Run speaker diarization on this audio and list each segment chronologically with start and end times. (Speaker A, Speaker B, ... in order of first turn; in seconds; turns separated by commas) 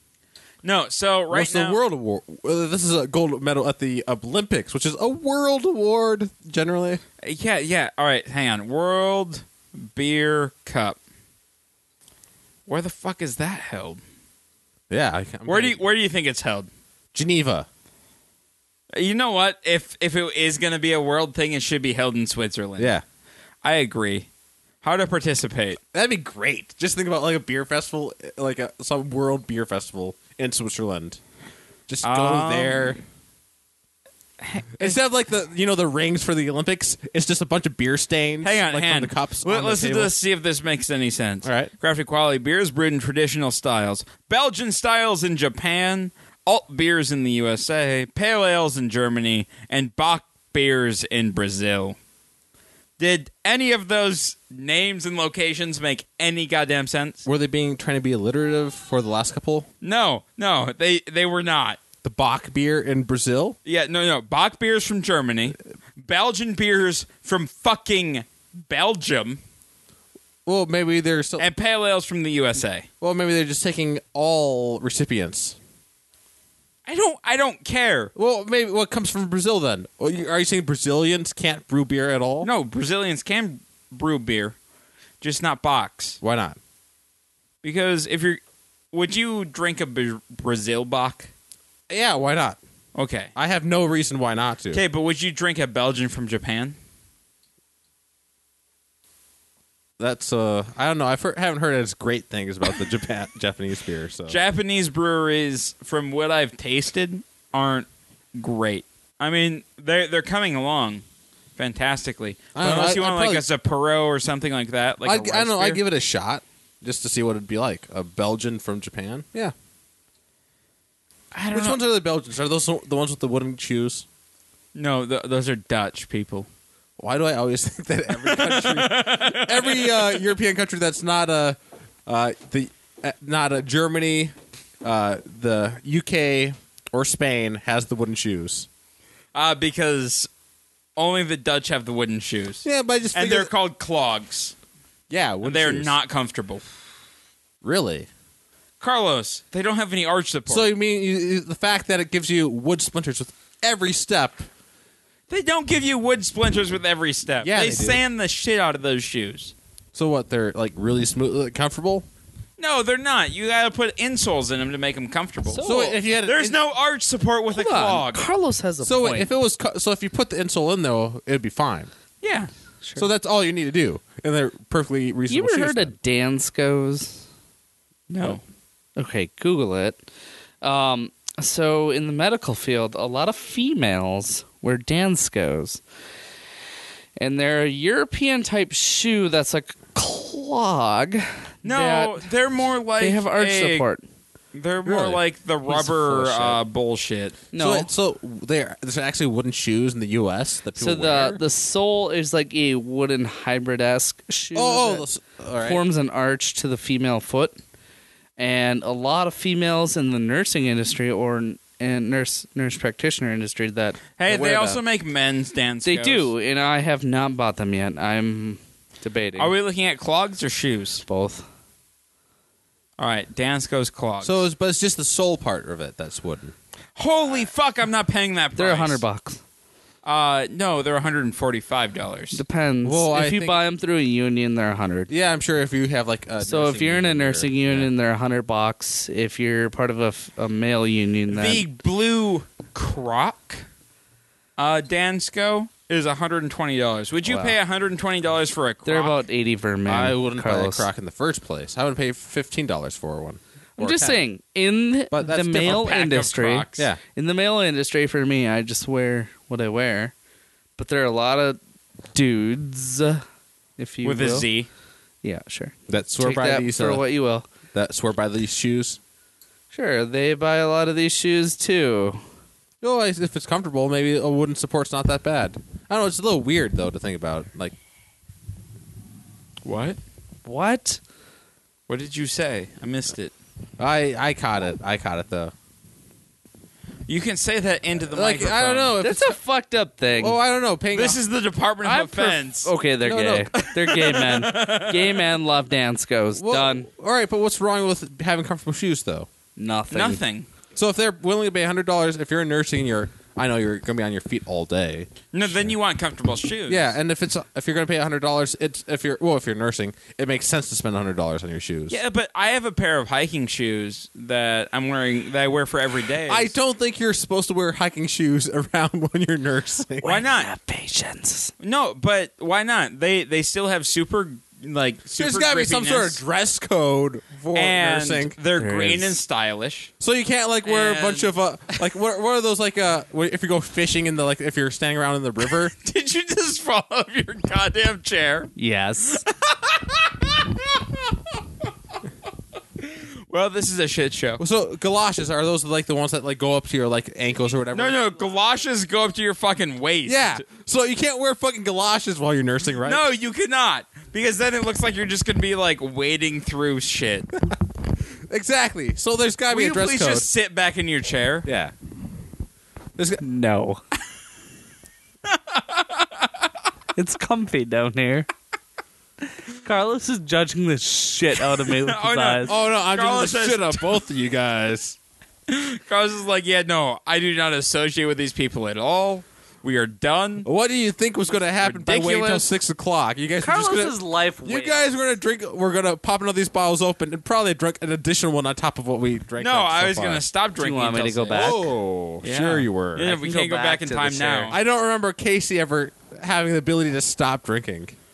Speaker A: 0.6-1.8, Speaker B: 1.3-7.0, Speaker A: 7.2-11.0, Speaker A: 12.7-14.0, Speaker B: 14.9-15.8, Speaker A: 15.5-16.7, Speaker B: 17.1-17.7, Speaker A: 18.9-22.9, Speaker B: 22.8-23.0, Speaker A: 23.6-24.3, Speaker A: 24.8-25.8, Speaker B: 25.9-31.2, Speaker B: 31.9-33.0, Speaker A: 32.0-33.0, Speaker A: 34.4-35.0, Speaker B: 34.8-40.1, Speaker A: 38.4-52.0, Speaker B: 41.4-41.7, Speaker A: 53.0-57.3, Speaker B: 57.2-59.7, Speaker A: 59.8-61.8, Speaker B: 62.0-63.6, Speaker A: 63.7-69.4, Speaker B: 70.5-71.5, Speaker A: 71.4-72.9, Speaker B: 73.0-75.6, Speaker A: 76.9-78.1, Speaker B: 78.2-82.5, Speaker A: 82.4-84.5, Speaker A: 85.2-86.2, Speaker B: 86.2-86.6, Speaker A: 87.6-88.4, Speaker A: 88.9-91.3, Speaker B: 91.9-92.6, Speaker A: 93.0-93.3, Speaker B: 93.4-94.8, Speaker A: 94.7-96.8, Speaker B: 100.0-104.4, Speaker A: 104.3-111.0, Speaker A: 111.6-115.8, Speaker B: 112.5-113.5, Speaker B: 115.0-119.5, Speaker A: 121.3-121.8, Speaker B: 121.5-124.0, Speaker A: 124.8-126.5, Speaker B: 127.0-138.7, Speaker A: 128.1-130.3, Speaker A: 139.3-140.3, Speaker A: 141.0-144.5, Speaker B: 142.6-143.5, Speaker B: 145.1-145.9, Speaker A: 145.4-146.6, Speaker B: 147.6-148.1, Speaker A: 148.8-150.7, Speaker B: 150.5-154.5, Speaker A: 155.3-159.5, Speaker B: 157.4-158.0, Speaker B: 159.9-162.1, Speaker A: 162.6-165.7, Speaker C: 165.5-166.0, Speaker B: 165.6-166.6, Speaker A: 166.2-168.3, Speaker C: 167.5-169.3, Speaker B: 168.8-171.9, Speaker A: 172.2-172.5, Speaker B: 173.0-175.9, Speaker C: 175.3-177.2, Speaker A: 178.1-178.4, Speaker C: 179.0-180.0, Speaker C: 180.6-185.8, Speaker C: 187.2-192.3, Speaker A: 191.6-193.9, Speaker C: 193.0-194.0, Speaker A: 194.5-197.4, Speaker B: 194.8-196.6, Speaker C: 197.5-197.9, Speaker B: 197.6-201.4, Speaker C: 200.8-205.1, Speaker B: 204.6-205.8, Speaker C: 205.6-207.6, Speaker C: 208.4-214.8, Speaker A: 214.2-216.3, Speaker C: 215.8-219.5, Speaker A: 219.4-221.0, Speaker C: 221.1-221.5, Speaker A: 223.0-224.4, Speaker B: 224.2-226.6, Speaker A: 227.0-229.0, Speaker C: 228.6-229.4, Speaker A: 230.0-232.4, Speaker C: 232.3-235.1, Speaker B: 232.8-233.6, Speaker B: 235.1-237.9, Speaker C: 236.4-241.7, Speaker A: 241.3-243.6, Speaker A: 244.6-249.2, Speaker C: 247.3-247.6, Speaker C: 248.8-250.9, Speaker B: 249.9-254.2, Speaker C: 253.8-260.1, Speaker B: 255.1-255.8, Speaker A: 255.5-256.9, Speaker C: 260.8-261.6, Speaker C: 262.1-263.2, Speaker C: 263.8-264.5, Speaker A: 264.0-264.7, Speaker C: 265.2-267.5, Speaker B: 265.9-267.1, Speaker B: 267.7-269.0, Speaker C: 269.7-272.2, Speaker B: 272.8-277.8, Speaker A: 279.6-280.0, Speaker C: 280.5-281.0, Speaker A: 281.9-283.3, Speaker B: 283.8-285.5, Speaker A: 287.1-288.9, Speaker B: 288.1-289.4, Speaker C: 289.0-290.4, Speaker B: 290.2-291.2, Speaker A: 290.9-292.7, Speaker C: 291.8-296.9, Speaker B: 293.0-293.6, Speaker A: 293.6-295.3, Speaker B: 296.4-299.3, Speaker C: 299.6-300.2, Speaker A: 299.9-300.5, Speaker B: 300.8-305.7, Speaker A: 305.3-306.9, Speaker B: 306.7-312.0, Speaker A: 311.9-316.5, Speaker B: 316.3-320.2, Speaker C: 320.0-321.5, Speaker A: 320.0-320.5, Speaker A: 321.6-326.2, Speaker B: 325.2-328.4, Speaker A: 327.5-329.9, Speaker C: 328.6-329.2, Speaker B: 330.0-335.7, Speaker A: 330.6-331.8, Speaker A: 335.7-338.5, Speaker C: 338.6-339.2, Speaker A: 339.3-341.0, Speaker A: 342.9-344.4, Speaker B: 344.4-348.0, Speaker A: 347.7-350.4, Speaker B: 350.1-353.0, Speaker A: 352.8-357.3, Speaker B: 358.3-360.3, Speaker A: 359.5-361.5, Speaker B: 361.4-361.7, Speaker B: 363.0-363.2, Speaker C: 363.2-363.8, Speaker A: 365.3-366.3, Speaker C: 367.0-368.3, Speaker C: 369.6-372.5, Speaker A: 371.6-374.0, Speaker B: 372.4-375.0, Speaker A: 375.5-380.5, Speaker B: 380.4-390.2, Speaker A: 381.6-382.5, Speaker C: 383.4-384.9, Speaker A: 389.4-391.7, Speaker C: 390.6-391.7, Speaker B: 391.3-393.2, Speaker A: 392.2-394.6, Speaker C: 393.0-394.6, Speaker B: 394.5-397.9